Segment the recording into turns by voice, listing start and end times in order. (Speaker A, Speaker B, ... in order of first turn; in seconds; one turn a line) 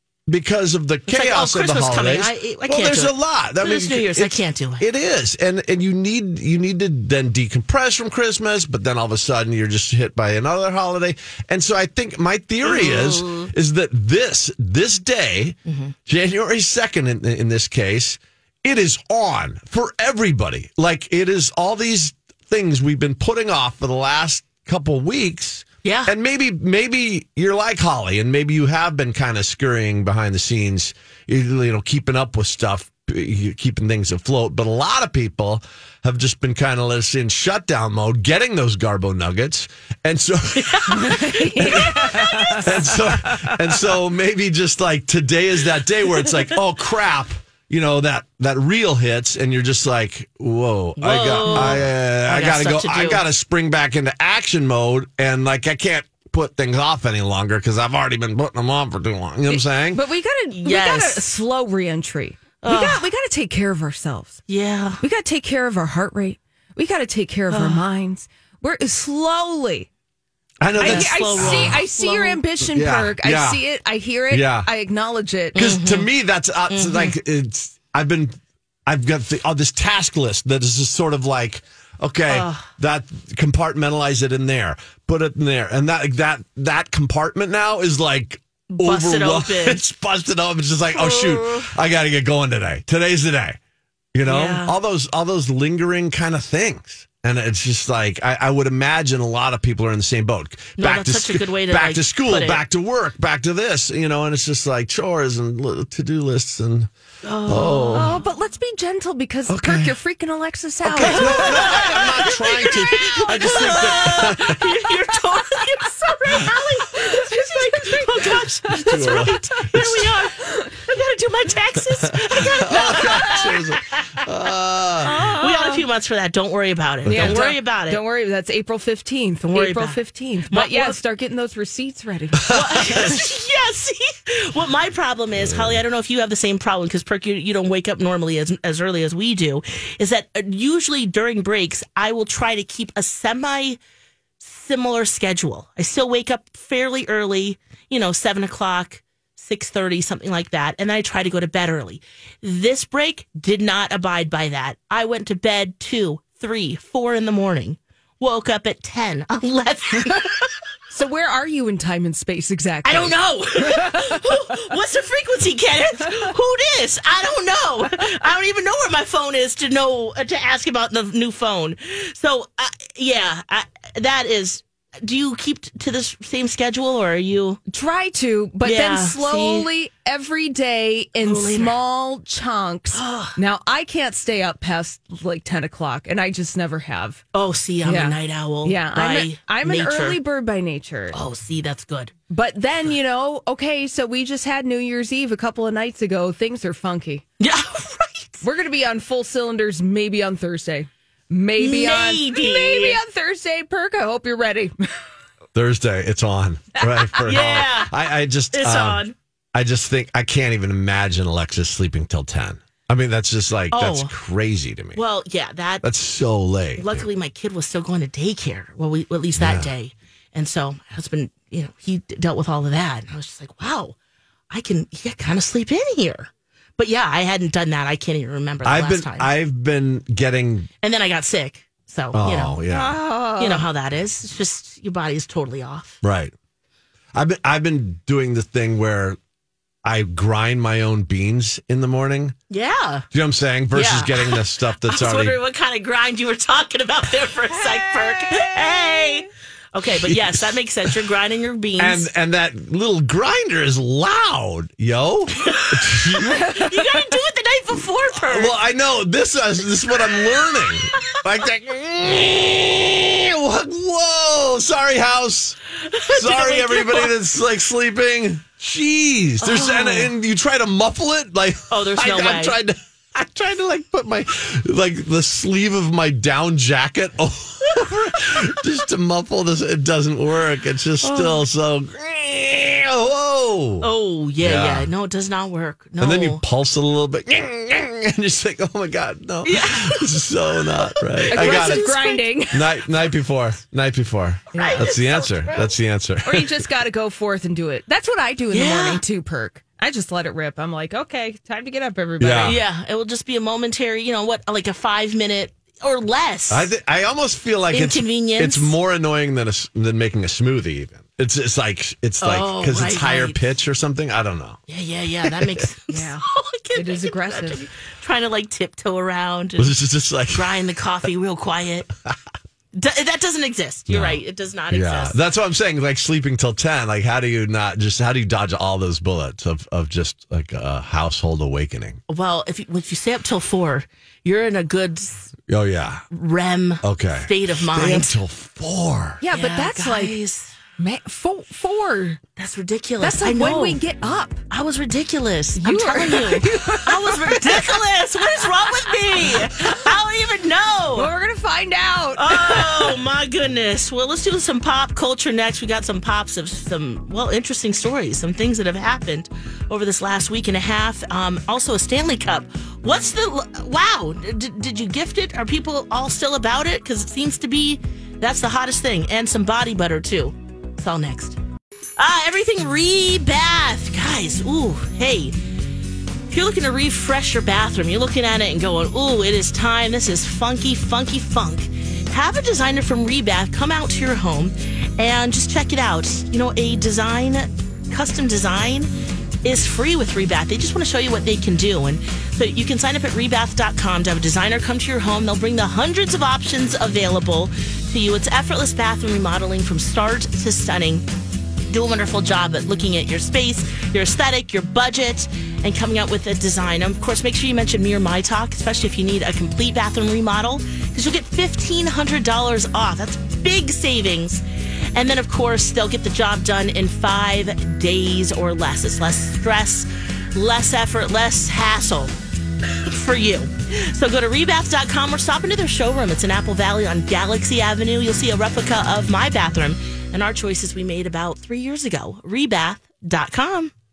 Speaker A: 0.3-60.0
Speaker B: 1.1-4.8
Speaker B: 12.6-13.5
Speaker B: 15.7-15.9
Speaker B: 25.8-26.1
Speaker B: 40.5-42.7
Speaker C: 40.9-43.6
Speaker B: 51.0-53.2
Speaker C: 51.4-51.8
Speaker C: 59.5-64.4
Speaker B: 60.5-61.3
Speaker B: 62.6-63.1
Speaker B: 64.5-65.0
Speaker C: 65.0-69.9
Speaker B: 67.5-67.8
Speaker A: 70.6-71.8
Speaker B: 70.7-72.4
Speaker C: 70.8-75.7
Speaker A: 72.6-73.6
Speaker A: 74.3-74.7
Speaker B: 75.5-76.1
Speaker A: 75.5-93.6
Speaker B: 76.7-77.2
Speaker B: 82.3-82.7
Speaker B: 88.7-89.8
Speaker B: 90.9-91.7
Speaker A: 94.1-106.9
Speaker B: 94.2-94.8
Speaker B: 100.8-102.6
Speaker B: 107.2-108.2
Speaker A: 107.5-108.2
Speaker C: 107.9-114.5
Speaker A: 109.5-110.0
Speaker A: 110.8-114.7
Speaker B: 111.0-124.1
Speaker C: 117.1-119.1
Speaker A: 118.7-120.2
Speaker A: 122.0-125.2
Speaker C: 122.7-123.5
Speaker C: 125.0-125.8
Speaker B: 125.0-128.0
Speaker A: 127.0-127.4
Speaker C: 127.0-133.2
Speaker B: 129.5-131.0
Speaker A: 132.5-133.1
Speaker B: 132.5-143.8
Speaker A: 135.4-135.8
Speaker B: 144.4-160.5
Speaker C: 160.9-164.6
Speaker B: 162.8-177.6
Speaker C: 177.7-187.2
Speaker B: 178.6-179.7
Speaker B: 181.2-181.8
Speaker B: 182.9-183.4
Speaker B: 187.3-190.2
Speaker C: 187.8-191.2
Speaker B: 191.1-192.1
Speaker C: 192.3-197.2
Speaker B: 197.4-198.4
Speaker C: 198.4-204.8
Speaker B: 201.6-203.0
Speaker A: 205.5-215.0
Speaker B: 207.2-208.0
Speaker B: 208.5-209.1
Speaker B: 213.7-214.1
Speaker B: 214.9-215.8
Speaker A: 215.8-217.1
Speaker B: 216.8-223.9
Speaker A: 219.4-219.7
Speaker B: 224.5-229.3
Speaker A: 228.6-230.7
Speaker B: 230.8-232.6
Speaker A: 232.1-232.9
Speaker C: 232.7-233.6
Speaker B: 233.4-236.0
Speaker A: 236.0-236.3
Speaker A: 237.1-239.2
Speaker A: 239.8-242.3
Speaker B: 242.5-243.0
Speaker A: 243.1-245.4
Speaker B: 243.7-252.1
Speaker C: 247.8-248.4
Speaker A: 249.9-250.9
Speaker A: 251.8-256.5
Speaker B: 255.4-258.5
Speaker A: 258.2-265.6
Speaker B: 265.9-267.1
Speaker A: 266.1-283.9
Speaker B: 269.4-270.1
Speaker B: 271.7-272.6
Speaker B: 281.0-281.4
Speaker B: 283.8-286.4
Speaker A: 284.4-284.9
Speaker A: 286.0-291.9
Speaker B: 289.4-290.3
Speaker B: 290.8-292.3
Speaker C: 291.3-292.8
Speaker A: 292.5-296.6
Speaker B: 294.5-295.8
Speaker C: 294.5-294.9
Speaker C: 296.2-302.6
Speaker B: 298.5-299.0
Speaker A: 302.2-302.6
Speaker B: 302.4-306.7
Speaker A: 306.5-314.6
Speaker B: 307.7-308.7
Speaker B: 312.2-313.4
Speaker B: 314.7-319.8
Speaker A: 315.2-315.6
Speaker C: 315.9-317.6
Speaker A: 319.6-320.5
Speaker B: 320.3-321.9
Speaker B: 322.7-325.2
Speaker A: 323.9-332.0
Speaker B: 332.1-335.3
Speaker A: 335.5-336.0
Speaker B: 336.1-338.1
Speaker A: 336.8-339.2
Speaker C: 339.2-340.2
Speaker B: 339.3-340.5
Speaker C: 340.8-342.2
Speaker B: 342.4-343.8
Speaker C: 343.0-344.4
Speaker B: 344.5-351.1
Speaker C: 345.6-347.8
Speaker C: 348.3-349.9
Speaker C: 350.9-353.0
Speaker B: 352.2-371.4
Speaker B: 372.0-375.4
Speaker B: 376.3-388.9
Speaker B: 389.4-401.1
Speaker B: 401.7-422.1
Speaker B: 422.8-433.7